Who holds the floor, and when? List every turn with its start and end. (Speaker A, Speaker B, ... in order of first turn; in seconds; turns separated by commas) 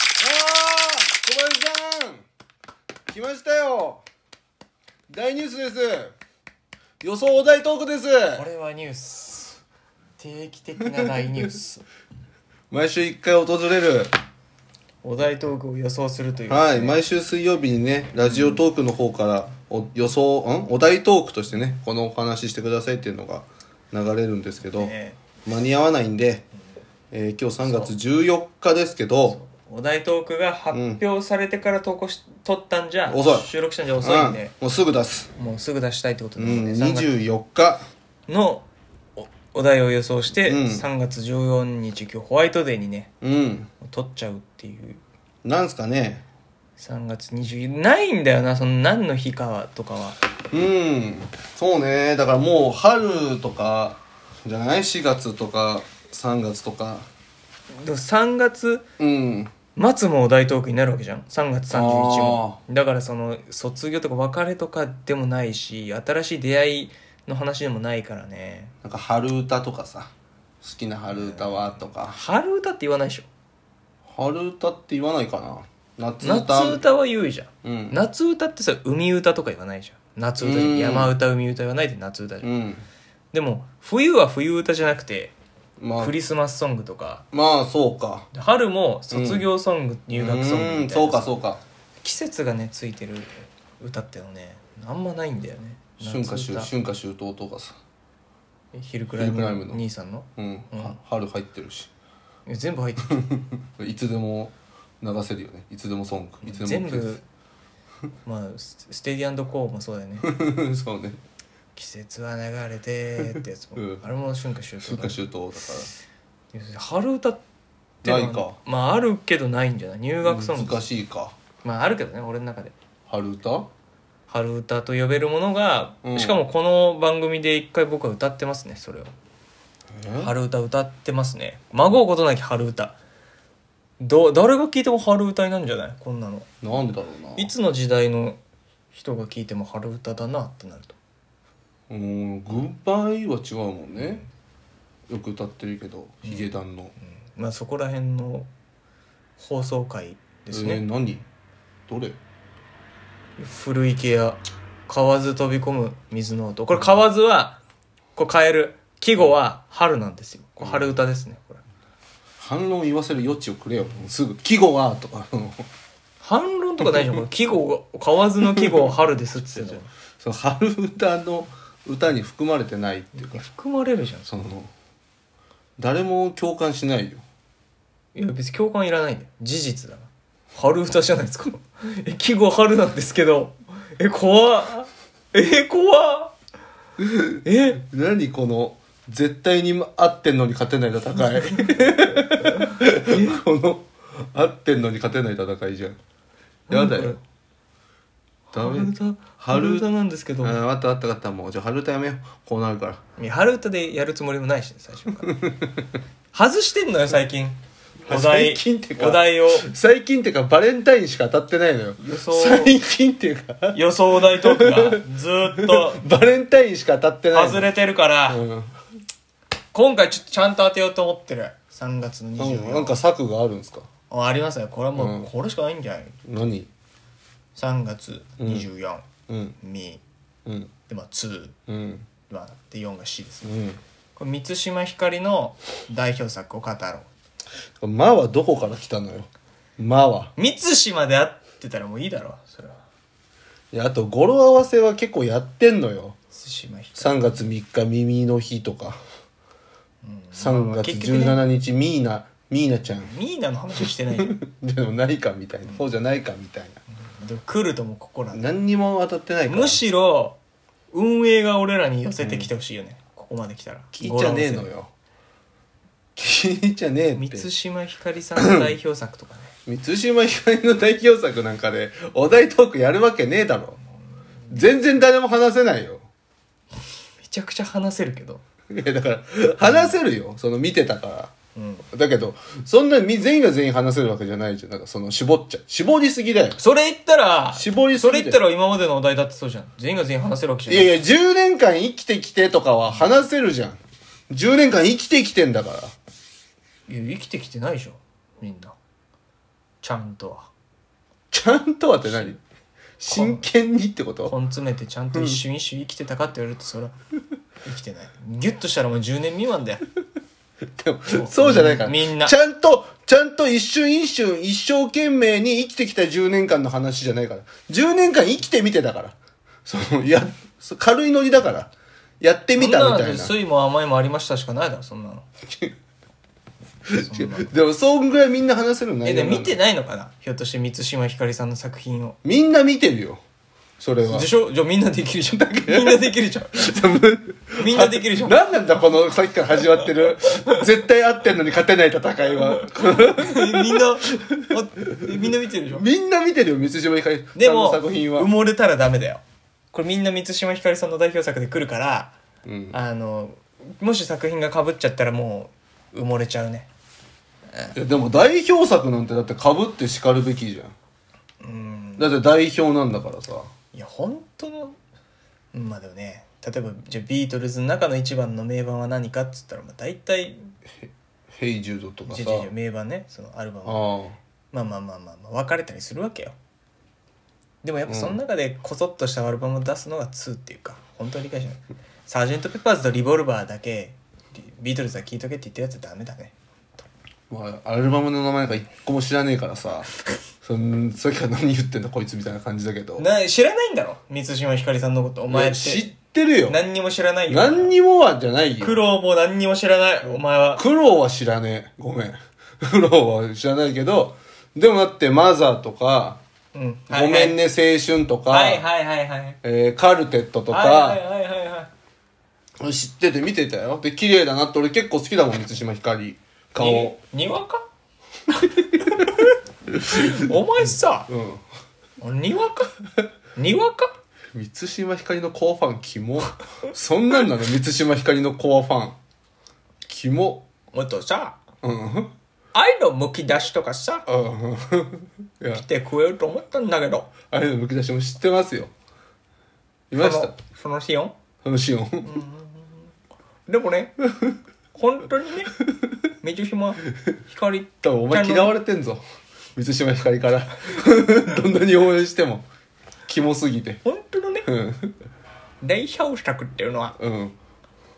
Speaker A: 0.2-2.2, Speaker A: 3.1-4.0, Speaker A: 5.1-6.1, Speaker A: 7.0-8.4, Speaker B: 8.3-9.6, Speaker B: 10.2-11.8, Speaker A: 12.7-14.1, Speaker B: 15.0-17.0, Speaker A: 16.5-24.9, Speaker B: 24.6-25.2, Speaker A: 25.4-26.4, Speaker A: 27.1-29.4, Speaker B: 27.6-27.9, Speaker B: 29.2-34.5, Speaker A: 30.7-31.0, Speaker A: 33.1-33.5, Speaker A: 34.0-35.3, Speaker B: 35.4-37.2, Speaker A: 36.4-37.8, Speaker B: 38.3-38.6, Speaker B: 39.2-43.1, Speaker A: 40.4-40.9, Speaker A: 43.2-43.7, Speaker B: 43.8-45.0, Speaker A: 45.4-46.2, Speaker B: 46.8-50.2, Speaker A: 50.5-57.1, Speaker B: 57.8-58.8, Speaker A: 59.0-59.5, Speaker B: 59.7-68.7, Speaker A: 61.7-62.6, Speaker A: 68.8-72.2, Speaker B: 71.1-73.3, Speaker A: 74.1-76.8, Speaker B: 76.2-82.5, Speaker A: 77.6-78.0, Speaker A: 80.4-81.1, Speaker A: 82.4-82.8, Speaker B: 83.3-85.3, Speaker A: 85.8-86.1, Speaker B: 86.0-87.2, Speaker A: 87.3-88.3, Speaker B: 88.3-91.3, Speaker A: 89.1-89.5, Speaker A: 90.1-91.6, Speaker B: 92.0-96.7, Speaker A: 96.0-97.7, Speaker B: 98.7-101.0, Speaker A: 99.2-99.8, Speaker A: 100.4-101.9, Speaker B: 102.5-103.3, Speaker A: 103.1-107.2, Speaker B: 106.4-107.2, Speaker B: 108.2-110.3, Speaker A: 110.2-111.2, Speaker B: 111.8-115.2, Speaker A: 113.3-114.0, Speaker A: 114.8-115.9, Speaker B: 116.5-117.4, Speaker B: 118.0-120.9, Speaker A: 118.0-118.6, Speaker A: 120.2-121.3, Speaker B: 121.6-122.7, Speaker A: 123.1-123.7, Speaker B: 124.3-129.1, Speaker A: 126.0-126.4, Speaker A: 129.9-130.3, Speaker B: 130.2-132.9, Speaker B: 134.0-136.5, Speaker A: 136.6-137.5, Speaker B: 137.3-138.4, Speaker B: 138.9-140.9, Speaker A: 141.9-144.2, Speaker A: 145.1-146.9, Speaker B: 146.2-146.5, Speaker B: 147.2-148.5, Speaker B: 149.4-150.8, Speaker A: 150.5-151.2, Speaker A: 151.9-152.2, Speaker B: 153.4-157.6, Speaker B: 158.2-161.6, Speaker A: 160.6-160.9, Speaker A: 162.4-165.7, Speaker B: 166.2-169.9, Speaker A: 169.3-173.4, Speaker B: 173.2-174.3, Speaker A: 174.3-174.7, Speaker A: 175.8-177.2, Speaker B: 178.1-186.3, Speaker A: 187.0-196.0, Speaker B: 187.4-187.8, Speaker B: 191.4-193.4, Speaker A: 196.7-197.2, Speaker B: 196.7-197.2, Speaker B: 198.5-200.6, Speaker A: 198.5-199.9, Speaker A: 200.4-203.0, Speaker B: 203.2-205.3, Speaker A: 205.3-205.8, Speaker B: 206.3-209.7, Speaker A: 208.1-217.7, Speaker B: 212.0-212.8, Speaker B: 213.7-216.0, Speaker B: 217.3-218.4, Speaker A: 218.3-218.7, Speaker B: 219.7-222.9, Speaker A: 222.4-223.9, Speaker B: 224.1-226.2, Speaker A: 224.9-225.3, Speaker A: 226.2-226.7, Speaker B: 227.5-229.0, Speaker A: 228.4-228.7, Speaker A: 229.3-229.6, Speaker B: 229.6-230.0, Speaker A: 230.4-230.7, Speaker B: 230.9-231.6, Speaker A: 231.7-232.1, Speaker B: 232.3-233.5, Speaker A: 233.4-233.8, Speaker B: 234.2-237.1, Speaker A: 237.8-240.3, Speaker B: 240.3-242.8, Speaker A: 243.7-246.2, Speaker B: 246.3-247.3, Speaker A: 246.9-249.0, Speaker B: 250.0-251.4, Speaker A: 250.3-253.1, Speaker B: 253.0-254.4, Speaker A: 254.2-256.8, Speaker B: 257.0-258.4, Speaker A: 258.3-259.8, Speaker B: 259.5-260.4, Speaker B: 260.9-264.7, Speaker A: 262.2-262.5, Speaker A: 263.9-264.9, Speaker A: 266.1-267.5, Speaker B: 267.1-269.5, Speaker A: 268.4-268.7, Speaker A: 269.6-273.8, Speaker A: 274.5-276.1, Speaker B: 277.2-278.4, Speaker A: 278.7-281.3, Speaker B: 281.5-281.8, Speaker A: 281.9-286.6, Speaker B: 286.6-291.0, Speaker A: 287.5-288.4, Speaker A: 290.7-293.8, Speaker A: 294.3-295.9, Speaker B: 296.9-298.8, Speaker B: 299.8-300.5, Speaker A: 301.3-302.4, Speaker A: 303.0-304.3, Speaker B: 303.0-303.5, Speaker B: 304.2-306.9, Speaker A: 305.1-305.4, Speaker B: 307.6-309.8, Speaker A: 310.8-323.3, Speaker B: 311.1-312.4, Speaker B: 322.6-325.2, Speaker A: 326.9-329.6, Speaker B: 327.0-327.5, Speaker B: 329.0-332.2, Speaker A: 332.2-333.2, Speaker A: 333.8-334.3, Speaker B: 334.0-336.7, Speaker A: 335.6-344.3, Speaker B: 337.6-338.4, Speaker B: 340.3-340.6, Speaker B: 342.4-345.9, Speaker A: 344.9-348.3, Speaker B: 347.3-349.2, Speaker B: 349.7-352.1, Speaker A: 352.4-352.8, Speaker B: 352.7-356.7, Speaker A: 357.7-360.7, Speaker B: 361.4-362.1, Speaker A: 362.0-363.5, Speaker B: 363.7-364.8, Speaker B: 365.5-370.5, Speaker A: 370.8-372.5, Speaker B: 372.1-373.9, Speaker A: 373.6-374.2, Speaker B: 374.5-376.4, Speaker B: 377.6-386.8, Speaker A: 377.9-378.2, Speaker A: 387.3-389.9, Speaker A: 390.4-393.0, Speaker B: 393.0-395.9, Speaker A: 395.3-396.6, Speaker B: 396.4-397.7, Speaker A: 397.3-398.8, Speaker B: 398.6-400.6, Speaker A: 400.6-406.2, Speaker B: 406.5-407.4, Speaker A: 406.9-408.6, Speaker B: 408.3-409.4, Speaker A: 409.4-411.0, Speaker B: 410.5-411.7, Speaker A: 412.6-416.9, Speaker B: 416.6-417.6, Speaker A: 418.3-419.1, Speaker B: 418.8-419.3, Speaker A: 419.8-420.3, Speaker B: 419.9-421.1, Speaker A: 421.1-421.4, Speaker B: 422.0-422.8, Speaker B: 423.3-423.9, Speaker A: 424.3-429.0, Speaker A: 429.9-430.5, Speaker B: 430.7-431.4, Speaker A: 431.6-432.1, Speaker B: 432.5-434.1, Speaker A: 434.1-435.6, Speaker B: 435.5-437.1, Speaker A: 437.3-438.7, Speaker A: 439.9-440.3, Speaker B: 439.9-441.1, Speaker A: 441.4-442.1, Speaker B: 442.0-442.8, Speaker B: 443.5-443.9, Speaker B: 444.7-445.6, Speaker B: 446.2-448.5, Speaker A: 447.8-449.0, Speaker A: 449.6-452.5, Speaker A: 453.1-453.8, Speaker B: 453.8-454.5, Speaker A: 454.4-454.9, Speaker B: 455.6-456.9, Speaker A: 457.0-457.4